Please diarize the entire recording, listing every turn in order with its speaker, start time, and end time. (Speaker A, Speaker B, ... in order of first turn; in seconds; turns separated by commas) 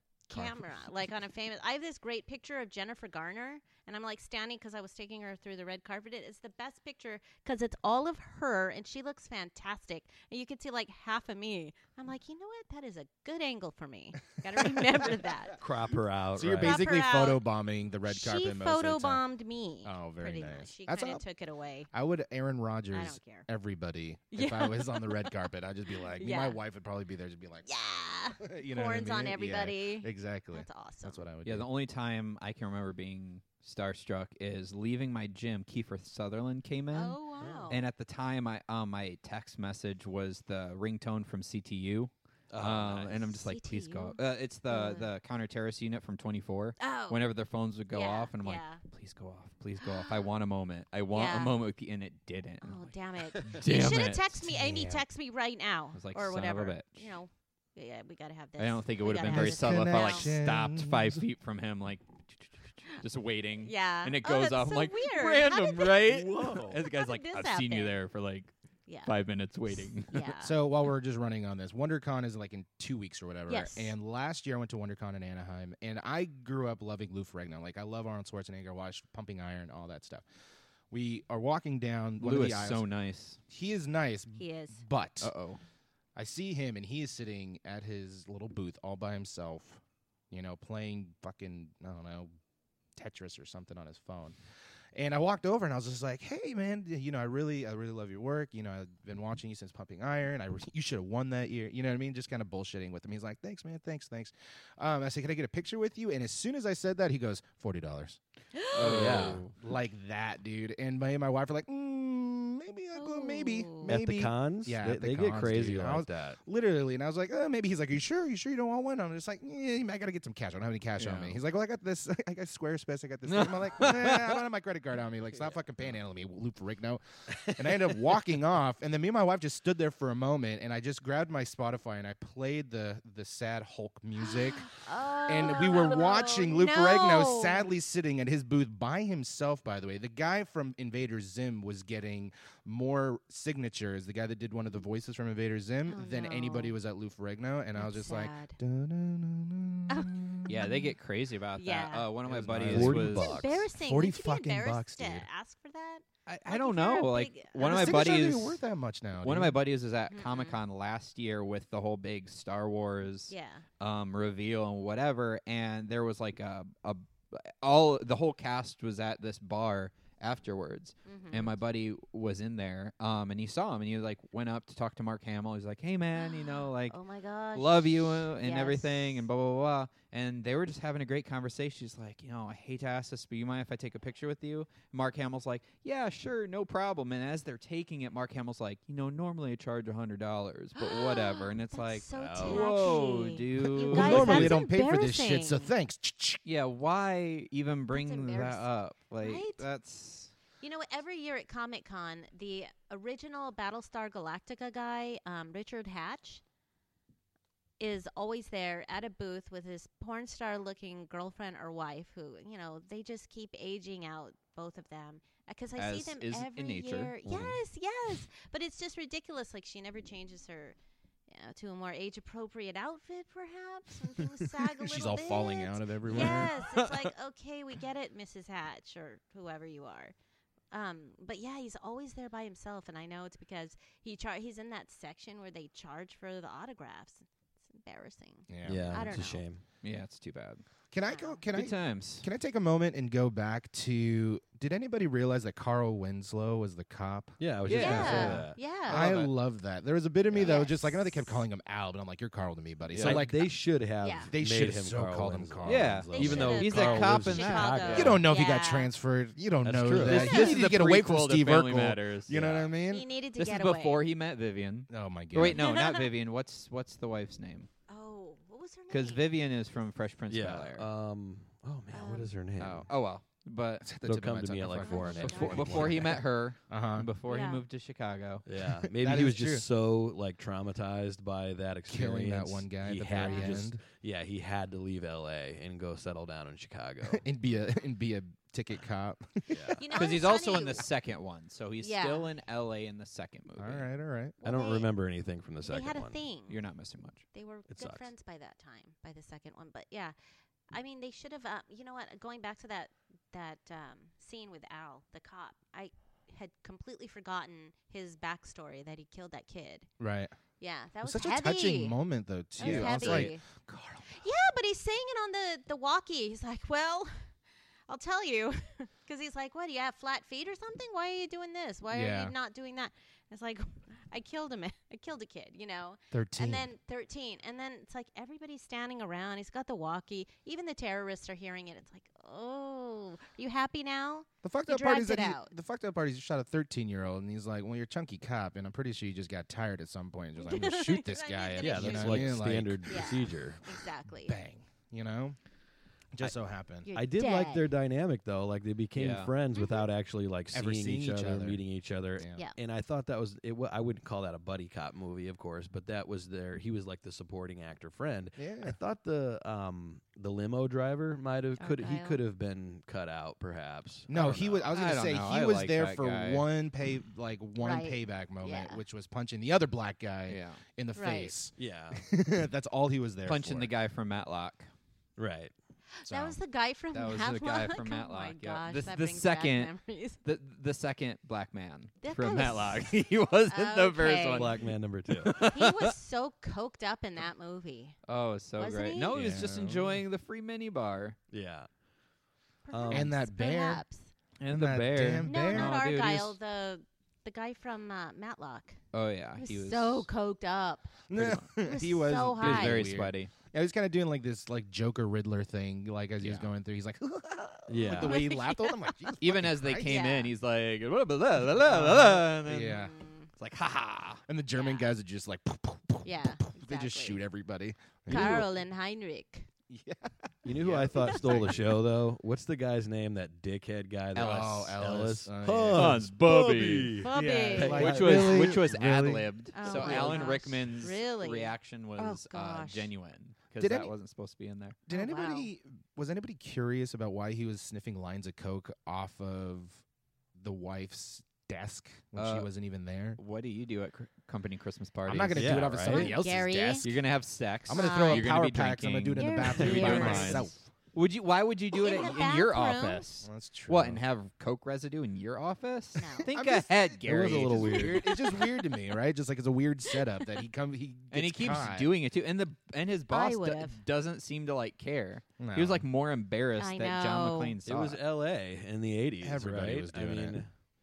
Speaker A: 0.3-15.6, Speaker B: 0.3-0.8, Speaker B: 14.6-15.2, Speaker C: 15.6-16.8, Speaker B: 16.3-19.2, Speaker A: 16.6-17.4, Speaker A: 18.1-21.9, Speaker B: 19.8-21.2, Speaker B: 21.9-27.7, Speaker A: 22.9-23.5, Speaker A: 24.3-25.3, Speaker A: 26.2-26.6, Speaker A: 27.6-31.2, Speaker B: 28.4-31.7, Speaker D: 31.4-37.2, Speaker A: 36.9-37.9, Speaker C: 37.4-37.7, Speaker D: 37.7-54.4, Speaker C: 42.5-43.2, Speaker A: 43.3-44.2, Speaker A: 44.7-45.1, Speaker A: 46.8-47.2, Speaker A: 47.9-48.8, Speaker A: 49.8-50.2, Speaker A: 51.1-51.5, Speaker A: 52.6-60.3, Speaker B: 54.5-55.0, Speaker D: 55.9-57.1, Speaker D: 58.6-68.5, Speaker B: 59.2-61.2, Speaker A: 63.6-66.1, Speaker C: 66.1-66.8, Speaker A: 66.8-68.0, Speaker A: 68.9-69.1, Speaker D: 69.0-70.3, Speaker A: 70.1-70.5, Speaker B: 70.4-80.2, Speaker A: 73.5-73.9, Speaker B: 80.9-82.8, Speaker D: 82.2-83.4, Speaker B: 83.5-85.3, Speaker A: 84.4-84.8, Speaker D: 85.2-85.6, Speaker B: 86.2-92.3, Speaker B: 93.0-94.4, Speaker B: 94.9-108.2, Speaker A: 108.5-108.8, Speaker D: 108.7-109.5, Speaker B: 108.8-150.7, Speaker C: 108.8-109.4, Speaker A: 112.9-113.9, Speaker C: 113.8-116.4, Speaker D: 121.0-121.4, Speaker D: 123.3-124.4, Speaker A: 134.2-137.7, Speaker A: 145.9-146.8, Speaker A: 147.8-148.6, Speaker A: 149.9-150.4, Speaker D: 150.5-153.4, Speaker A: 151.6-152.1, Speaker C: 152.3-153.7, Speaker B: 152.4-153.2, Speaker A: 153.1-158.2, Speaker B: 153.7-155.3, Speaker D: 156.3-158.6, Speaker B: 157.6-159.6, Speaker D: 159.2-177.0, Speaker A: 160.1-160.6, Speaker A: 163.3-163.6, Speaker A: 171.0-171.6, Speaker A: 176.2-179.2, Speaker D: 177.5-194.6, Speaker A: 190.8-195.7, Speaker C: 192.2-192.9, Speaker B: 193.8-196.4, Speaker D: 196.4-200.3, Speaker A: 197.9-198.7, Speaker A: 199.2-199.6, Speaker A: 200.6-206.4, Speaker A: 207.8-220.8, Speaker D: 215.8-217.1, Speaker C: 217.2-217.6, Speaker A: 221.3-230.1, Speaker B: 224.8-226.5, Speaker D: 226.1-226.8, Speaker A: 230.7-239.4, Speaker B: 238.5-239.2, Speaker C: 238.6-239.6, Speaker D: 239.8-240.6, Speaker B: 240.9-248.3, Speaker A: 241.1-241.4, Speaker D: 241.5-242.3, Speaker C: 247.4-248.6, Speaker D: 247.6-249.3, Speaker A: 247.7-249.0, Speaker B: 248.9-253.5, Speaker C: 250.3-250.6, Speaker A: 250.4-251.4, Speaker D: 252.9-253.2, Speaker C: 253.0-258.2, Speaker A: 254.0-254.3, Speaker B: 254.3-256.6, Speaker D: 255.6-258.2, Speaker A: 256.1-258.9, Speaker B: 257.9-263.1, Speaker C: 259.6-260.4, Speaker D: 260.0-262.7, Speaker A: 262.9-264.0, Speaker D: 263.4-267.7, Speaker B: 264.9-265.6, Speaker A: 265.5-266.1, Speaker A: 267.9-269.2, Speaker D: 268.9-270.9, Speaker C: 270.3-272.9, Speaker A: 271.9-272.3, Speaker D: 272.6-273.9, Speaker B: 273.8-276.1, Speaker C: 274.0-276.2, Speaker A: 274.8-275.8, Speaker D: 275.2-278.4, Speaker B: 276.7-277.1, Speaker A: 277.3-277.6, Speaker C: 278.4-287.2, Speaker B: 278.9-279.6, Speaker B: 281.9-283.8, Speaker A: 283.2-283.5, Speaker B: 287.0-289.8, Speaker C: 289.5-289.8, Speaker A: 289.8-290.9, Speaker D: 289.9-293.9, Speaker A: 291.8-292.3, Speaker B: 293.6-294.4, Speaker A: 294.4-294.9, Speaker C: 294.4-296.2, Speaker A: 295.6-296.6, Speaker D: 296.5-297.2, Speaker A: 297.3-300.1, Speaker C: 297.7-298.1, Speaker A: 300.7-309.9, Speaker B: 310.0-310.3, Speaker A: 310.6-312.0, Speaker B: 311.0-314.2, Speaker A: 312.6-313.4, Speaker D: 312.6-313.3, Speaker A: 314.1-317.4, Speaker A: 317.9-335.5, Speaker B: 321.9-322.3, Speaker B: 326.1-326.7, Speaker B: 334.4-343.4, Speaker A: 340.4-344.4, Speaker C: 341.6-343.6, Speaker B: 344.2-345.4, Speaker B: 346.1-346.9, Speaker A: 346.8-347.7, Speaker C: 346.9-364.6, Speaker D: 348.9-349.3, Speaker A: 349.5-349.9, Speaker B: 350.5-351.6, Speaker B: 352.1-352.4, Speaker B: 358.4-358.8, Speaker A: 361.6-362.2, Speaker B: 364.1-373.7, Speaker D: 364.7-366.4, Speaker A: 367.6-368.8, Speaker D: 370.3-370.6, Speaker A: 370.9-371.3, Speaker C: 371.6-372.0, Speaker D: 373.2-374.7, Speaker C: 375.2-375.5, Speaker A: 376.0-380.2, Speaker B: 376.1-376.4, Speaker D: 376.9-385.9, Speaker A: 382.0-384.5, Speaker C: 384.3-385.4, Speaker A: 385.5-388.0, Speaker D: 388.1-391.2, Speaker A: 388.6-389.1, Speaker B: 389.1-390.0, Speaker C: 391.3-391.7, Speaker A: 392.6-394.1, Speaker C: 392.7-393.1, Speaker B: 392.9-393.8, Speaker D: 394.4-396.4, Speaker B: 394.5-395.8, Speaker A: 395.2-398.8, Speaker D: 398.9-400.1, Speaker A: 399.4-400.9, Speaker B: 401.1-410.0, Speaker D: 401.1-401.4, Speaker A: 401.6-402.8, Speaker D: 402.4-403.3, Speaker C: 407.7-408.2, Speaker A: 407.8-409.2, Speaker D: 409.2-412.9, Speaker A: 409.8-410.3, Speaker B: 411.6-412.9, Speaker A: 412.7-413.3, Speaker D: 413.4-414.2, Speaker B: 414.3-418.4, Speaker A: 414.5-414.9, Speaker A: 416.0-417.2, Speaker A: 418.1-419.5, Speaker B: 419.7-421.8, Speaker C: 420.4-428.6, Speaker B: 424.1-426.0, Speaker D: 425.7-427.0, Speaker A: 427.0-427.9, Speaker B: 427.1-430.4, Speaker D: 427.6-434.8, Speaker A: 429.5-432.9, Speaker B: 433.6-433.9, Speaker B: 434.9-439.8, Speaker A: 434.9-435.5, Speaker B: 440.4-443.2, Speaker D: 442.1-442.5, Speaker D: 443.2-445.6, Speaker B: 445.1-447.0, Speaker C: 445.3-446.1, Speaker A: 445.9-446.9, Speaker D: 446.8-458.1, Speaker B: 447.6-450.7, Speaker A: 447.7-448.3, Speaker A: 449.1-450.5, Speaker C: 449.6-450.2, Speaker A: 451.7-453.1, Speaker B: 453.2-454.0, Speaker A: 456.0-456.3, Speaker B: 456.3-461.9, Speaker C: 457.1-458.0, Speaker D: 461.1-468.0, Speaker A: 463.1-463.8, Speaker B: 465.4-465.9, Speaker A: 466.6-467.6, Speaker C: 467.6-470.5, Speaker B: 469.2-470.4